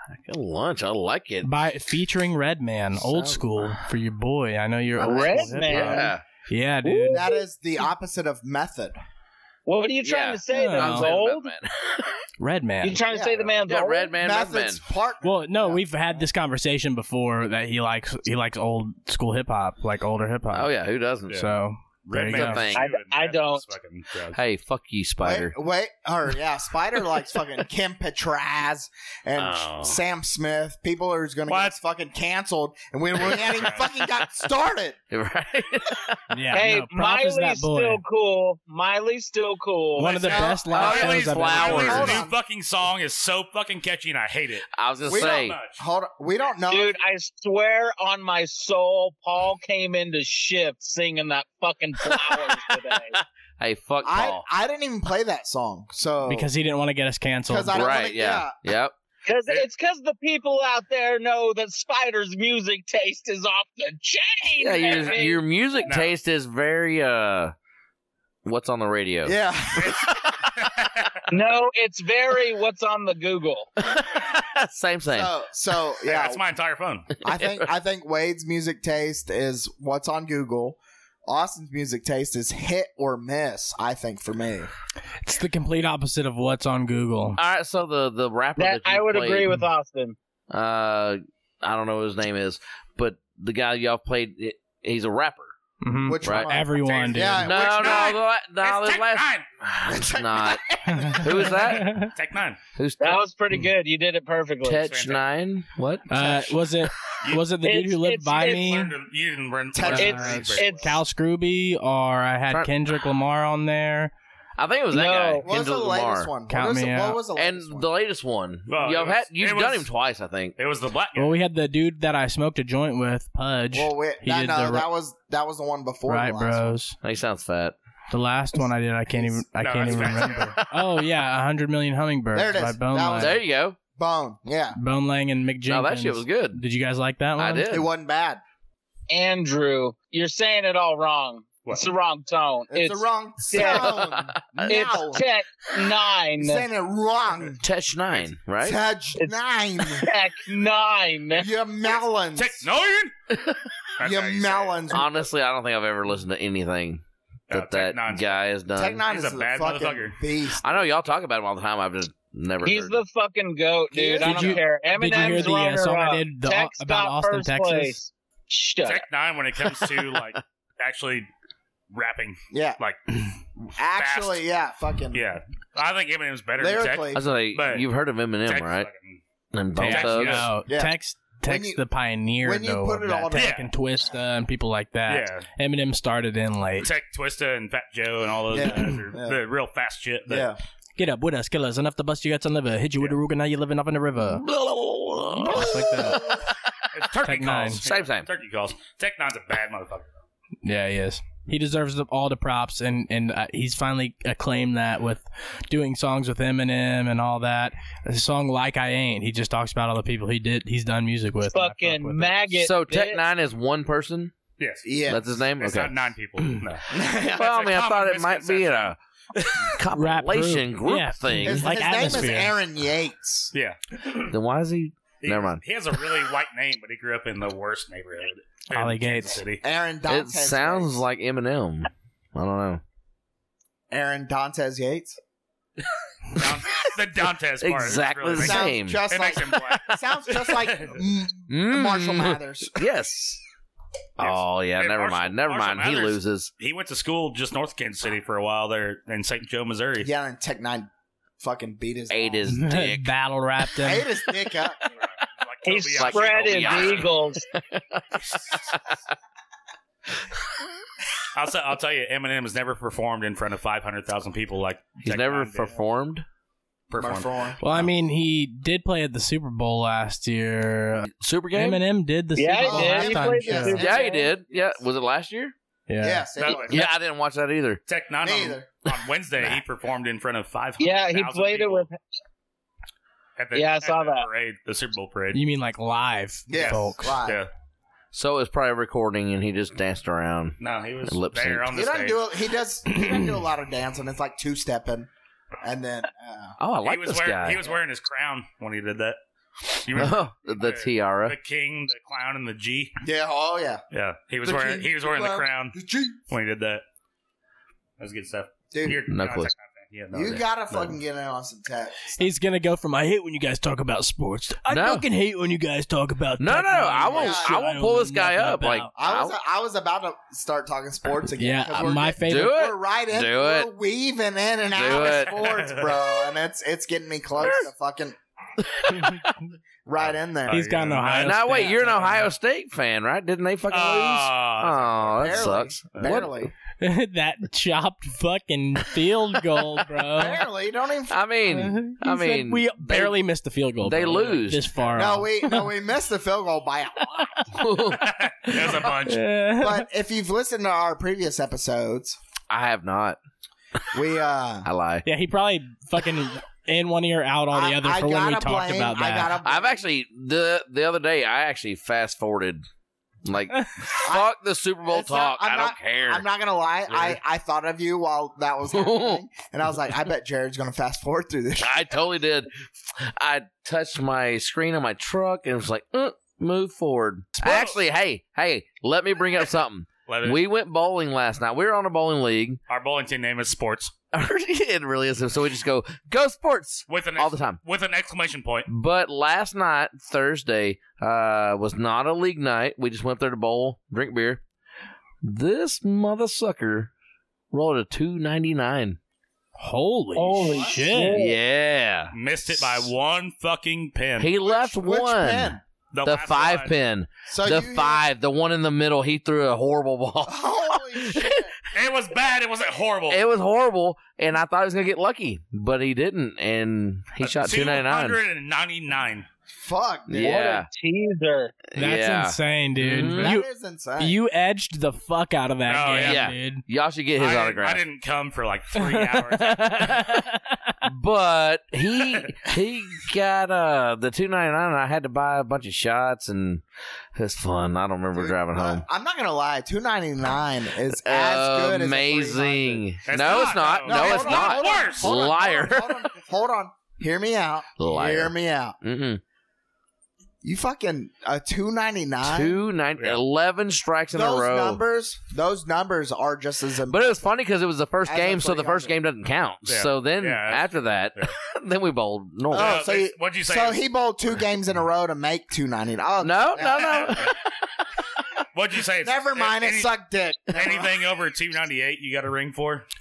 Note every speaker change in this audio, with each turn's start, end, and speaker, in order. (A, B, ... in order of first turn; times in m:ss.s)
0:00.1-0:01.5 A
0:01.4-0:07.2 B
0:03.0-0:03.8 A
0:05.0-0:06.1 C
0:05.1-0:06.2 A
0:06.8-0:07.4 C
0:07.1-0:09.0 D
0:09.7-0:11.5 C
0:10.0-0:12.2 A
0:10.5-0:11.1 B
0:12.4-0:13.0 B
0:12.8-0:14.2 C
0:13.1-0:13.6 D
0:13.7-0:14.8 A
0:14.2-0:15.9 D
0:15.2-0:20.7 B
0:20.5-0:21.4 A
0:21.3-0:22.7 B
0:22.1-0:24.4 E
0:22.3-0:22.9 A
0:22.8-0:23.6 C
0:24.3-0:25.5 A
0:25.2-0:35.0 D
0:29.4-0:30.0 A
0:31.5-0:31.8 E
0:33.6-0:33.9 E
0:35.1-0:36.2 A
0:36.3-0:38.0 B
0:36.5-0:40.5 C
0:40.0-0:42.2 B
0:40.1-0:45.8 E
0:40.3-0:40.6 D
0:40.7-0:42.2 A
0:41.7-0:42.4 D
0:44.7-0:45.6 A
0:45.1-0:47.0 D
0:46.7-0:53.2 C
0:52.1-0:54.4 A
0:54.0-0:56.5 D
0:56.3-0:57.8 B
0:57.5-0:58.6 D
0:57.7-0:58.9 A
0:59.3-1:05.9 C
1:04.6-1:07.5 A
1:05.9-1:06.1 E
1:08.4-1:09.3 A
1:09.2-1:10.2 D
1:09.8-1:11.2 E
1:11.3-1:13.7 C
1:13.8-1:15.3 A
1:15.1-1:16.4 D
1:16.0-1:17.1 E
1:17.2-1:24.7 D
1:17.3-1:17.6 A
1:25.2-1:27.4 B
1:27.4-1:29.5 A
1:28.6-1:30.2 C
1:30.5-1:35.5 A
1:35.8-1:37.5 B
1:36.0-1:38.1 D
1:36.2-1:36.5 A
1:36.8-1:39.5 E
1:37.4-1:40.6 A
1:39.9-1:41.5 D
1:40.9-1:42.1 B
1:41.2-1:42.1 A
1:41.5-1:42.6 E
1:42.8-1:43.2 A
1:43.0-1:44.9 C
1:44.6-1:46.4 A
1:44.9-1:45.2 E
1:46.1-1:48.9 B
1:47.6-1:48.9 C
1:48.5-1:51.0 E
1:49.7-1:50.6 D
1:49.9-1:51.0 C
1:50.7-1:54.1 B
1:52.5-1:52.8 A
1:54.6-1:56.3 A
1:54.9-1:55.5 C
1:55.4-1:57.9 D
1:56.5-1:57.2 B
1:57.4-2:00.6 A
1:58.7-1:59.9 E
2:00.6-2:01.4 E
2:01.2-2:04.9 B
2:03.7-2:06.7 D
2:06.1-2:07.0 B
2:07.0-2:07.8 A
2:08.1-2:13.4 B
2:09.1-2:09.4 D
2:09.6-2:10.6 E
2:12.3-2:14.8 D
2:13.2-2:13.8 A
2:14.8-2:17.7 B
2:15.7-2:16.6 A
2:17.4-2:17.9 A
2:17.7-2:18.4 D
2:19.1-2:24.0 C
2:22.7-2:25.2 D
2:23.5-2:24.8 A
2:24.7-2:26.6 C
2:26.4-2:27.6 D
2:27.6-2:28.8 A
2:28.6-2:30.1 D
2:30.0-2:31.5 C
2:31.4-2:32.6 D
2:32.4-2:33.1 E
2:33.3-2:33.6 A
2:34.0-2:34.8 E
2:34.0-2:35.1 D
2:34.9-2:39.0 A
2:37.5-2:38.4 E
2:38.8-2:40.8 D
2:39.1-2:40.2 E
2:40.6-2:43.0 A
2:42.6-2:49.0 C
2:43.9-2:44.6 D
2:44.2-2:48.0 B
2:45.1-2:45.5 D
2:48.8-2:51.3 E
2:51.9-2:53.0 E
2:52.5-2:52.8 D
2:53.8-2:55.2 D
2:54.0-2:54.4 E
2:55.1-2:57.9 E
2:56.6-2:57.2 D
2:57.1-2:58.9 A
2:58.4-2:59.2 E
2:59.5-3:00.5 A
2:59.8-3:06.9 B
2:59.8-3:00.5 E
3:00.7-3:01.8 D
3:02.4-3:03.5 D
3:03.3-3:03.7 E
3:05.1-3:05.5 E
3:06.8-3:10.5 E
3:08.5-3:09.4 D
3:10.3-3:10.6 D
3:11.0-3:14.4 B
3:14.3-3:16.4 A
3:15.4-3:16.2 B
3:16.9-3:20.2 E
3:17.2-3:17.8 B
3:17.8-3:18.3 A
3:20.6-3:32.4 B
3:31.4-3:33.2 C
3:32.6-3:34.3 A
3:34.6-3:34.9 E
3:34.8-3:35.2 D
3:35.1-3:36.0 A
3:35.6-3:39.7 E
3:36.9-3:37.3 D
3:37.2-3:39.0 A
3:39.7-3:41.7 A
3:39.9-3:42.6 B
3:41.4-3:43.5 D
3:43.5-3:44.2 E
3:44.3-3:45.6 A
3:45.2-3:49.6 E
3:48.7-3:49.4 B
3:49.6-3:51.0 D
3:50.1-3:52.8 A
3:53.9-3:55.2 D
3:56.3-4:00.9 E
3:57.6-3:59.1 A
3:58.4-4:02.8 D
4:01.5-4:03.4 A
4:04.2-4:06.5 A
4:04.2-4:10.1 E
4:10.0-4:12.4 D
4:12.1-4:13.1 A
4:12.5-4:14.1 B
4:13.8-4:14.8 D
4:15.0-4:17.1 E
4:15.7-4:17.4 C
4:16.0-4:18.8 A
4:21.3-4:25.7 E
4:25.0-4:26.2 A
4:26.9-4:27.3 E
4:27.0-4:27.6 D
4:27.6-4:33.8 B
4:31.1-4:31.8 A
4:32.4-4:34.3 C
4:32.6-4:34.8 D
4:33.7-4:35.5 A
4:35.9-4:36.3 B
4:36.0-4:36.9 D
4:36.4-4:36.9 E
4:36.7-4:37.8 A
4:37.9-4:41.9 E
4:38.2-4:38.7 D
4:40.8-4:42.0 C
4:43.4-4:45.4 E
4:43.5-4:44.3 C
4:45.3-4:47.2 B
4:46.5-4:47.4 D
4:46.5-4:47.5 E
4:48.1-4:50.6 A
4:50.6-4:52.2 E
4:51.1-4:51.7 A
4:51.7-4:55.1 D
4:52.9-4:53.3 B
4:55.6-4:56.6 D
4:56.6-4:57.7 A
4:56.8-4:59.2 E
4:59.7-5:03.0 E
4:59.9-5:01.4 A
5:03.0-5:03.8 D
5:03.9-5:05.8 E
5:04.4-5:06.2 D
5:06.3-5:06.8 E
5:08.0-5:11.0 E
5:08.7-5:09.0 D
5:09.1-5:09.5 A
5:10.1-5:12.2 D
5:12.2-5:18.9 B
5:14.7-5:15.1 A
5:16.4-5:19.4 A
5:17.1-5:17.6 D
5:19.0-5:28.2 D
5:21.4-5:22.6 B
5:22.2-5:23.7 A
5:24.7-5:25.4 A
5:25.0-5:26.0 E
5:28.6-5:29.2 A
5:28.9-5:29.3 B
5:29.9-5:30.7 D
5:30.0-5:32.2 E
5:30.5-5:32.1 B
5:31.2-5:36.3 A
5:33.7-5:36.2 E
5:35.2-5:36.5 D
5:36.8-5:40.4 B
5:40.1-5:41.2 D
5:41.1-5:43.2 A
5:41.5-5:45.7 B
5:43.8-5:44.7 A
5:45.0-5:47.3 D
5:47.5-5:48.8 A
5:48.0-5:49.2 E
5:49.0-5:49.9 B
5:49.6-5:52.2 D
5:52.5-5:53.2 A
5:53.9-5:54.7 D
5:54.6-5:55.1 A
5:55.0-5:59.4 B
5:57.5-5:59.8 D
5:59.4-6:02.6 A
6:03.2-6:06.2 A
6:04.1-6:04.3 D
6:04.8-6:11.8 D
6:06.9-6:07.2 A
6:08.7-6:09.2 A
6:11.6-6:22.6 A
6:17.4-6:17.8 E
6:20.1-6:20.4 E
6:22.7-6:23.9 E
6:24.1-6:27.6 A
6:26.9-6:28.7 E
6:28.7-6:34.4 A
6:35.2-6:36.9 A
6:37.5-6:39.0 A
6:39.6-6:41.2 B
6:40.2-6:41.4 C
6:41.1-6:42.9 A
6:42.1-6:44.3 E
6:44.2-6:51.5 A
6:44.4-6:45.6 D
6:45.9-6:46.7 E
6:47.3-6:48.1 D
6:50.3-6:51.5 D
6:51.7-6:53.2 E
6:53.1-6:58.2 A
6:57.2-6:59.3 E
6:59.6-7:00.4 D
7:00.1-7:00.7 A
7:00.2-7:01.6 C
7:01.7-7:03.4 A
7:01.8-7:03.5 B
7:03.1-7:04.2 D
7:04.0-7:06.6 B
7:05.7-7:06.3 E
7:05.9-7:07.8 A
7:07.2-7:10.0 E
7:08.8-7:10.8 B
7:10.9-7:16.6 A
7:17.2-7:18.8 A
7:18.2-7:22.8 D
7:20.9-7:26.0 A
7:23.1-7:25.3 E
7:23.8-7:28.8 D
7:27.8-7:29.2 A
7:30.4-7:32.6 D
7:32.2-7:34.8 A
7:34.1-7:37.3 D
7:36.9-7:42.8 A
7:38.0-7:39.0 D
7:39.7-7:41.3 E
7:42.5-7:47.2 D
7:42.5-7:43.8 E
7:46.2-7:47.5 A
7:46.8-7:47.3 E
7:48.5-7:49.9 E
7:49.0-7:50.9 D
7:50.5-7:52.8 E